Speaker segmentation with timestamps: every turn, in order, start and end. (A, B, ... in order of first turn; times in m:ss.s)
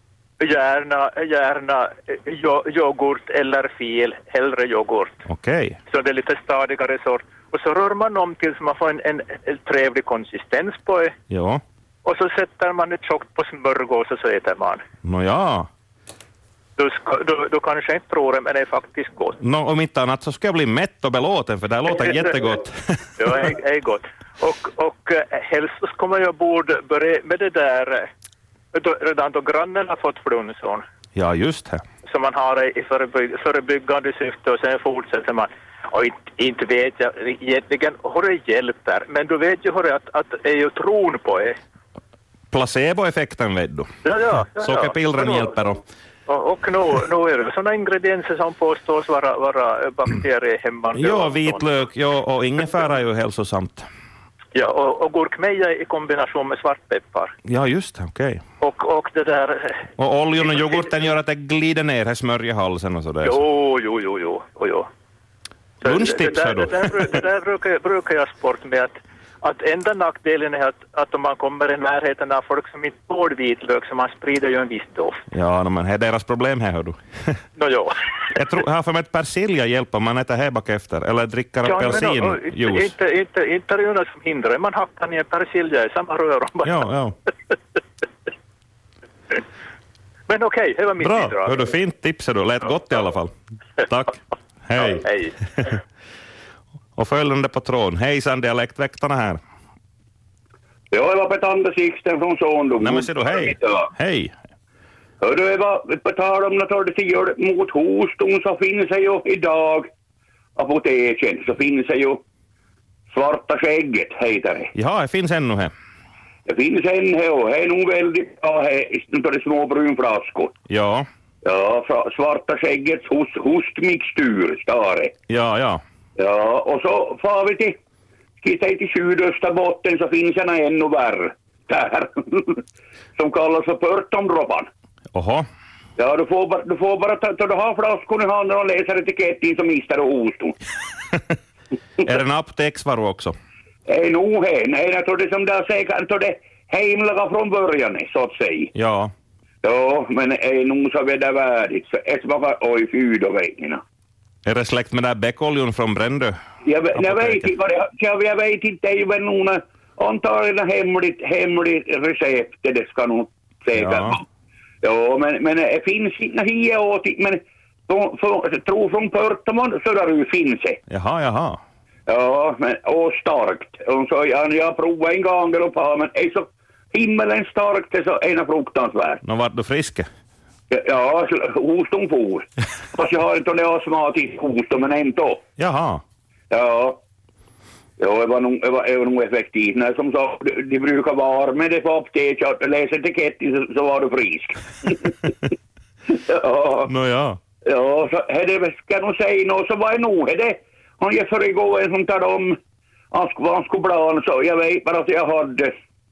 0:00.4-0:05.2 A
0:05.3-0:05.8 B
0:05.9-0:11.1 A
0:11.3-0:11.6 B
0:12.0-0:14.8 A
0:15.0-0:15.7 B
0:16.8-0:19.4 A
0:19.4-0:23.4 B
0:21.9-0:22.4 A
0:23.2-0:28.1 A
0:28.7-0:30.8 A
0:31.1-0:31.8 B
0:32.0-0:41.6 A
0:42.5-0:43.9 B
0:44.0-0:45.5 A
0:44.5-0:45.8 B
0:46.3-0:51.7 A
0:50.9-0:53.9 B
0:54.5-0:57.3 A
0:57.4-0:58.4 B
0:58.6-0:59.8 A
1:00.0-1:03.4 B
1:03.2-1:04.9 A
1:05.8-1:06.9 B
1:05.8-1:15.2 A
1:15.3-1:17.4 B
1:17.6-1:18.0 A
1:18.3-1:22.9 B
1:21.6-1:26.8 A
1:26.6-1:27.2 B
1:30.3-1:31.6 A
1:31.0-1:33.3 B
1:33.8-1:35.0 B
1:34.8-1:35.4 A
1:37.0-1:39.4 B
1:40.9-1:43.9 C
1:42.8-1:44.3 B
1:45.2-1:49.9 C
1:50.6-1:52.2 C
1:53.1-1:54.7 C
1:54.7-1:55.7 B
1:56.4-2:00.6 C
2:00.7-2:01.1 B
2:01.4-2:05.1 C
2:05.3-2:05.8 B
2:06.2-2:07.8 C
2:08.4-2:12.6 C
2:13.2-2:14.7 C
2:15.1-2:15.4 B
2:16.0-2:20.6 C
2:22.0-2:23.4 B
2:23.9-2:28.7 C
2:28.7-2:29.1 B
2:29.6-2:33.8 C
2:34.4-2:36.4 B
2:36.6-2:44.2 C
2:36.9-2:37.5 B
2:43.8-2:44.2 B
2:44.8-2:50.8 C
2:50.9-2:51.6 B
2:52.1-2:59.2 C
2:59.2-3:00.1 B
3:00.7-3:05.4 C
3:05.6-3:06.0 B
3:06.5-3:07.0 C
3:08.0-3:15.3 C
3:16.1-3:16.9 C
3:16.8-3:17.4 B
3:17.6-3:22.6 C
3:23.1-3:25.8 C